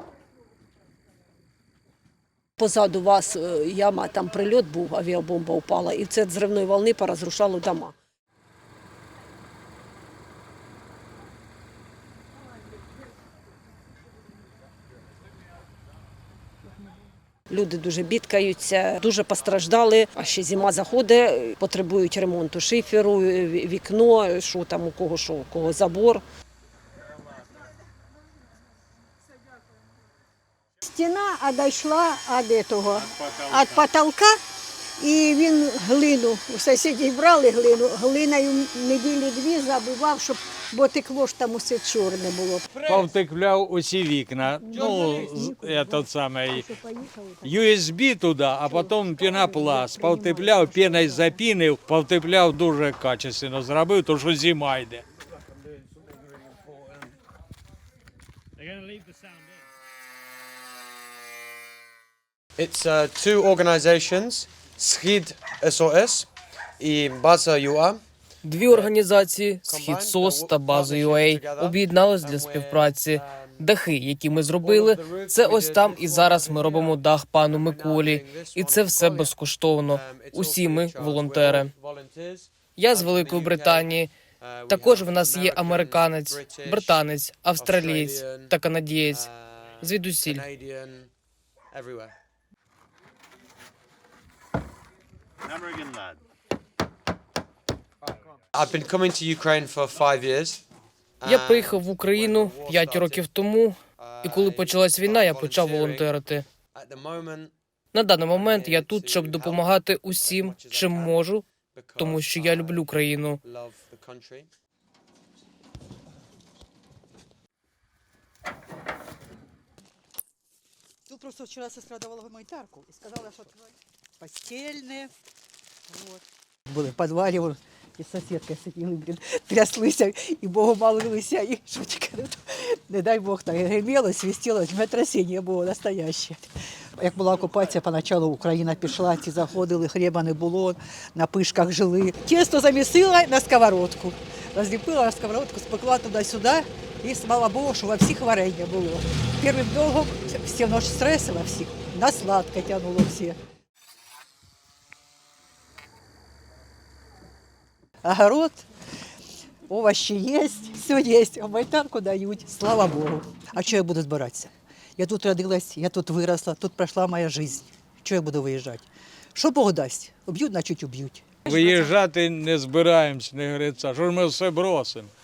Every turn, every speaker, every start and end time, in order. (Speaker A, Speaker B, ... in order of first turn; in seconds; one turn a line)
Speaker A: 2.6-8.0
Speaker A: 17.5-26.2
Speaker B: 30.8-34.4
Speaker B: 35.0-42.7
Speaker C: 42.7-43.1
Speaker D: 42.9-46.7
Speaker B: 44.7-47.6
Speaker C: 44.7-45.3
Speaker D: 47.4-55.0
Speaker B: 48.7-51.4
Speaker C: 62.6-68.0
Speaker E: 68.5-81.7
Speaker C: 68.7-68.9
Speaker C: 69.6-73.7
Speaker C: 74.6-79.4
Speaker C: 79.9-87.0
Speaker E: 82.8-84.1
Speaker E: 84.7-89.3
Speaker C: 87.6-88.6
Speaker C: 89.1-91.1
Speaker E: 89.8-90.5
Speaker C: 91.7-92.2
Speaker C: 98.5-100.6
Speaker C: 101.2-103.3
Speaker E: 101.2-106.5
Speaker C: 104.0-107.5
Speaker E: 107.9-111.4
Speaker C: 108.3-114.5
Speaker E: 112.0-113.4
Speaker F: 121.1-125.1
Speaker F: 125.9-153.4
Speaker F: 158.0-158.7
Speaker F: 159.7-171.5
Speaker D: 171.5-175.1